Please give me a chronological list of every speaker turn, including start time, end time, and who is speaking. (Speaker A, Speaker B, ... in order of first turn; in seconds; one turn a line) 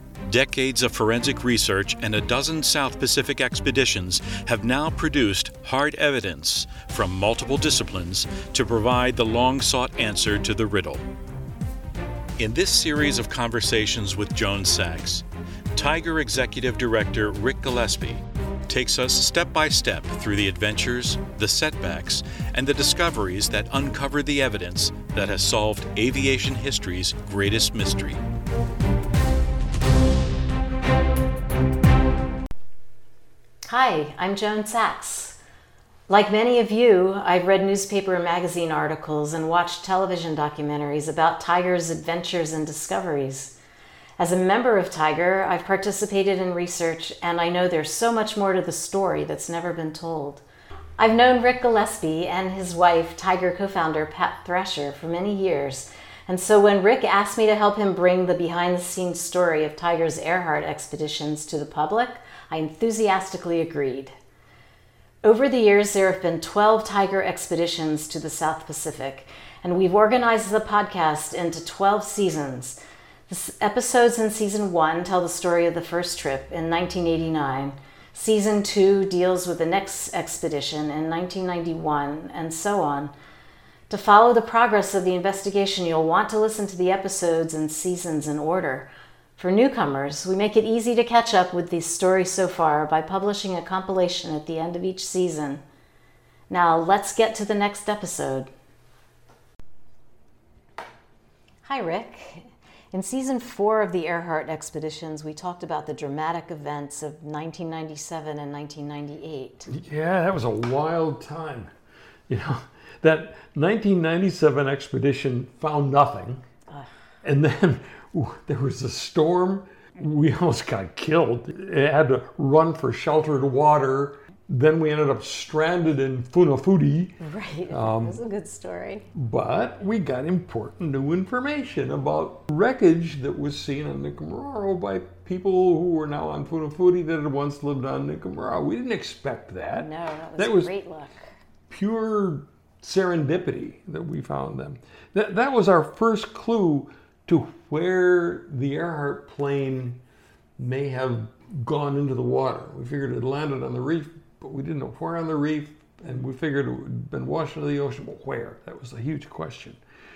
Speaker A: 0.2-11.0
Speaker A: 12.4-15.2
Speaker A: 15.7-28.2
Speaker B: 33.7-35.4
Speaker B: 36.1-43.5
Speaker B: 44.2-50.4
Speaker B: 51.0-64.1
Speaker B: 65.2-83.1
Speaker B: 83.9-95.6
Speaker B: 96.5-98.5
Speaker B: 101.6-109.7
Speaker C: 109.7-111.7
Speaker C: 112.3-116.4
Speaker C: 117.2-127.2
Speaker B: 127.2-129.1
Speaker C: 127.7-128.2
Speaker C: 129.1-140.7
Speaker B: 139.7-141.3
Speaker C: 141.7-150.0
Speaker C: 150.6-159.8